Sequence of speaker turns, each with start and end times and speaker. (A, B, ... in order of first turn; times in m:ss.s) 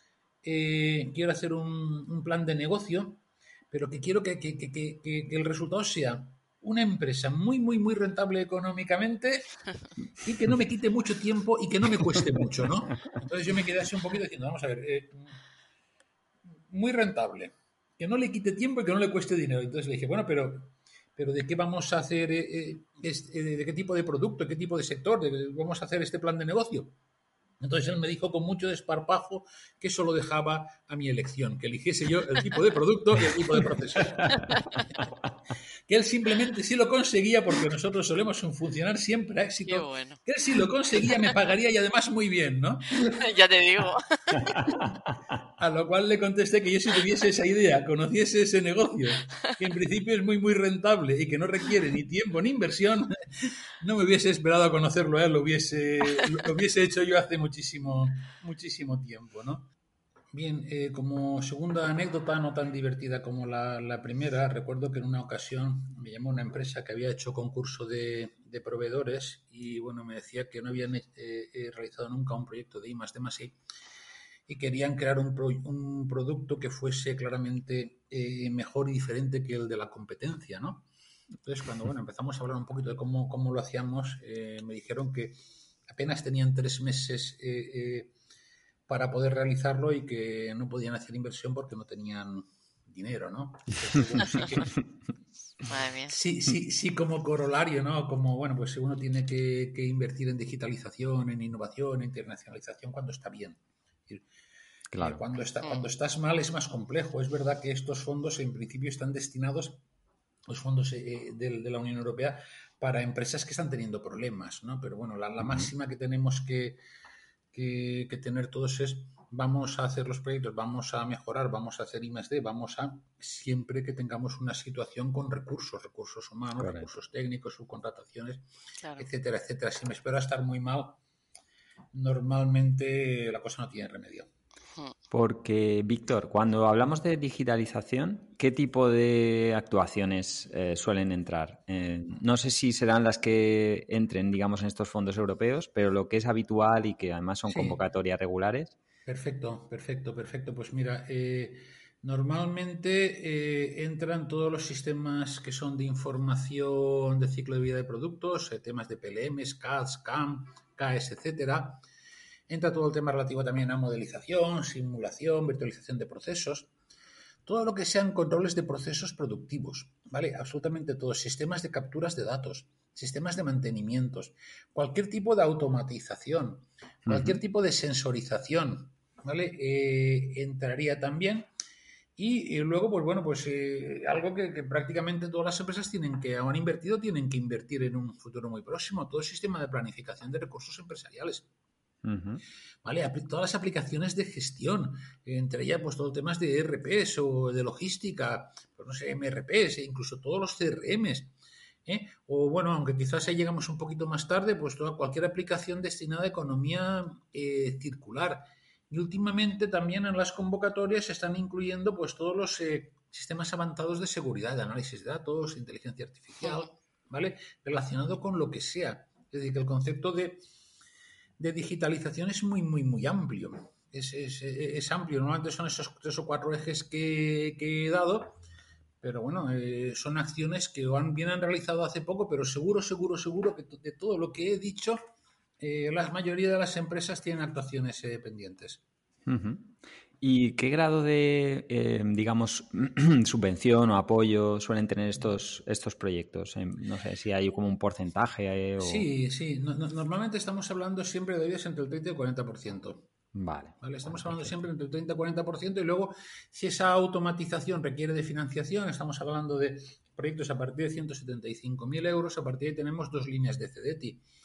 0:00.4-0:09.5 A
0:10.2-0:15.3 A
0:16.7-0:26.9 A
0:27.6-0:35.0 A
0:35.9-0:43.2 A
0:39.6-0:40.2 B
0:43.0-0:44.4 B
0:44.4-0:45.0 A
0:45.6-0:59.7 A
1:00.3-1:13.6 A
1:14.5-1:20.9 A
1:21.4-1:28.1 A
1:28.9-1:34.8 A
1:35.7-1:36.1 B
1:36.1-1:44.2 A
1:44.9-1:45.2 C
1:45.0-1:49.8 A
1:45.6-1:45.9 B
1:50.5-1:56.8 A
1:55.4-1:55.7 C
1:57.5-2:08.4 A
2:06.6-2:06.9 C
2:09.0-2:11.0 A
2:11.9-2:14.3 A
2:15.1-2:28.7 C
2:27.5-2:27.8 A
2:29.0-2:41.8 A
2:42.5-2:46.7 A
2:47.4-3:01.5 A
2:57.0-2:57.4 C
3:02.2-3:11.4 A
3:12.0-3:12.4 C
3:12.8-3:21.3 A
3:21.8-3:40.4 A
3:36.4-3:36.7 B
3:41.4-3:48.4 A
3:49.0-3:55.0 A
3:55.6-3:58.8 A
3:59.2-4:09.0 C
4:08.8-4:13.1 A
4:13.3-4:14.6 C
4:13.8-4:24.2 A